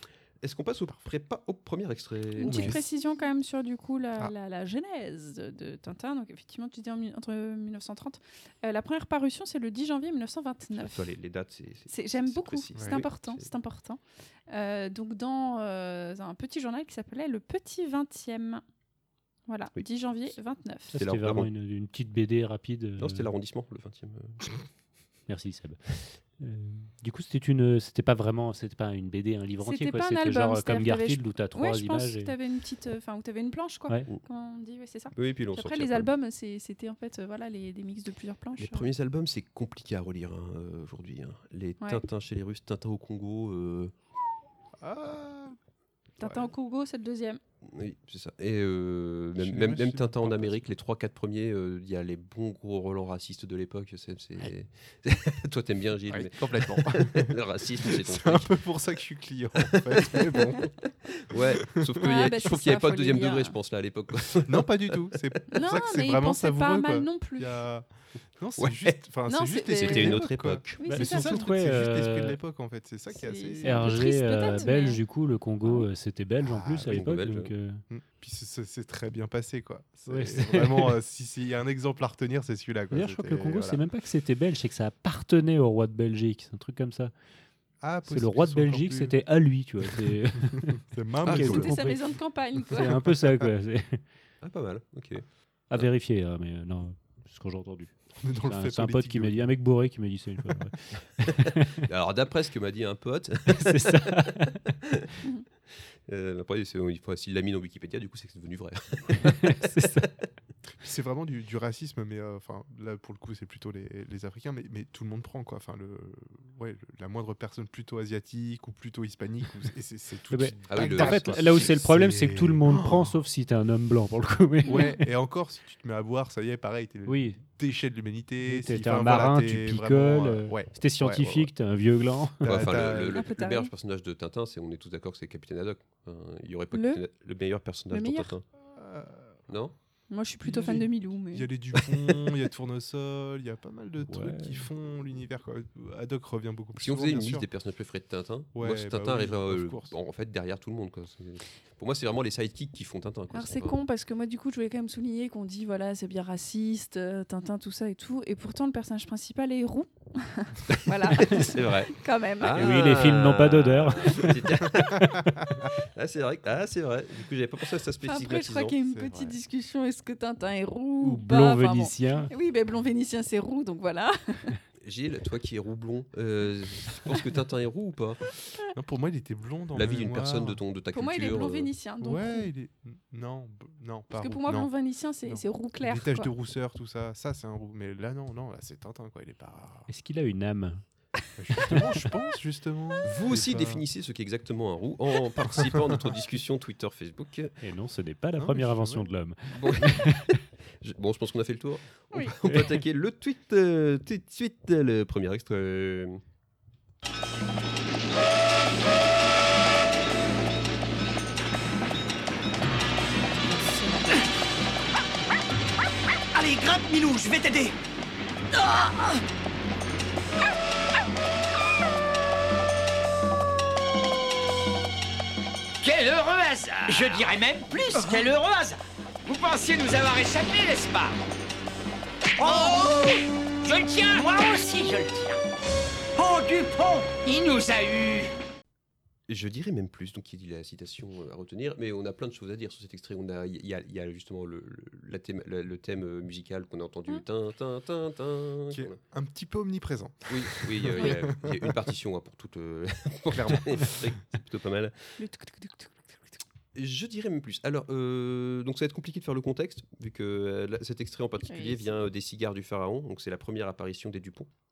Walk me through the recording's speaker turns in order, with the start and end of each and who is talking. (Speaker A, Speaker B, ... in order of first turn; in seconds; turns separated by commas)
Speaker A: 0.4-2.8, Speaker B: 2.4-11.1, Speaker C: 2.4-2.8, Speaker A: 10.8-13.5, Speaker B: 11.9-18.6, Speaker C: 12.8-13.0, Speaker B: 19.5-20.9, Speaker D: 20.9-23.3, Speaker A: 20.9-21.5, Speaker A: 23.0-24.5, Speaker D: 25.3-32.3, Speaker B: 29.6-38.9, Speaker A: 35.1-36.1, Speaker A: 38.6-43.9, Speaker C: 44.8-45.6, Speaker C: 46.2-46.5, Speaker B: 46.2-47.4, Speaker A: 47.6-58.6, Speaker C: 49.4-50.7, Speaker C: 56.1-60.7, Speaker A: 59.6-60.5, Speaker A: 61.2-65.8, Speaker C: 61.7-62.0, Speaker B: 62.0-63.5, Speaker C: 64.4-74.0, Speaker B: 65.5-67.5, Speaker A: 68.6-69.0, Speaker B: 69.3-70.3, Speaker A: 69.7-71.0, Speaker B: 70.8-71.4, Speaker D: 70.9-72.4, Speaker B: 73.1-75.0, Speaker D: 73.6-77.8, Speaker B: 75.6-75.9, Speaker C: 76.4-77.0, Speaker A: 76.9-77.5, Speaker C: 77.9-83.8, Speaker D: 80.1-81.0, Speaker D: 82.9-87.1, Speaker C: 87.8-89.2, Speaker D: 88.1-92.1, Speaker C: 90.6-91.8, Speaker B: 91.3-92.9, Speaker D: 92.6-94.0, Speaker A: 94.4-95.9, Speaker D: 95.7-101.8, Speaker C: 98.2-99.5, Speaker A: 101.8-104.2, Speaker D: 103.5-104.6, Speaker A: 106.1-109.8, Speaker D: 109.5-110.1, Speaker C: 110.8-123.2, Speaker D: 120.3-125.1, Speaker A: 120.7-121.7, Speaker B: 124.7-125.0, Speaker C: 124.7-131.3, Speaker D: 127.1-127.4, Speaker D: 128.4-132.4, Speaker C: 132.4-133.2, Speaker A: 132.4-138.5, Speaker B: 133.2-133.7, Speaker B: 136.7-137.0, Speaker B: 137.9-138.3, Speaker C: 138.6-139.4, Speaker A: 139.5-139.8, Speaker B: 140.1-141.5, Speaker C: 140.4-147.5, Speaker D: 144.0-144.7, Speaker A: 146.8-153.8, Speaker C: 148.5-150.0, Speaker B: 153.3-162.8, Speaker A: 160.8-168.8, Speaker D: 162.6-164.4, Speaker C: 164.7-165.7, Speaker B: 168.0-174.6, Speaker C: 168.8-169.4, Speaker D: 171.0-172.3, Speaker A: 174.8-178.2, Speaker C: 178.8-180.6, Speaker A: 179.8-181.7, Speaker B: 180.9-182.5, Speaker C: 182.0-184.7, Speaker B: 184.1-186.3, Speaker C: 185.2-189.9, Speaker D: 189.9-190.8, Speaker C: 191.4-193.8, Speaker A: 193.0-197.6, Speaker C: 195.5-196.1, Speaker D: 197.6-200.4, Speaker C: 198.4-199.1, Speaker A: 199.5-200.2, Speaker A: 200.8-206.2, Speaker B: 213.4-214.2, Speaker E: 216.4-217.7, Speaker F: 225.8-231.2, Speaker E: 226.9-228.2, Speaker F: 232.4-233.1, Speaker F: 233.6-235.4, Speaker F: 236.2-238.3, Speaker A: 239.3-249.0, Speaker C: 248.7-251.8, Speaker A: 250.3-255.2, Speaker B: 251.0-251.3, Speaker C: 253.3-253.9, Speaker B: 255.2-256.4, Speaker A: 256.8-264.5, Speaker B: 261.4-262.1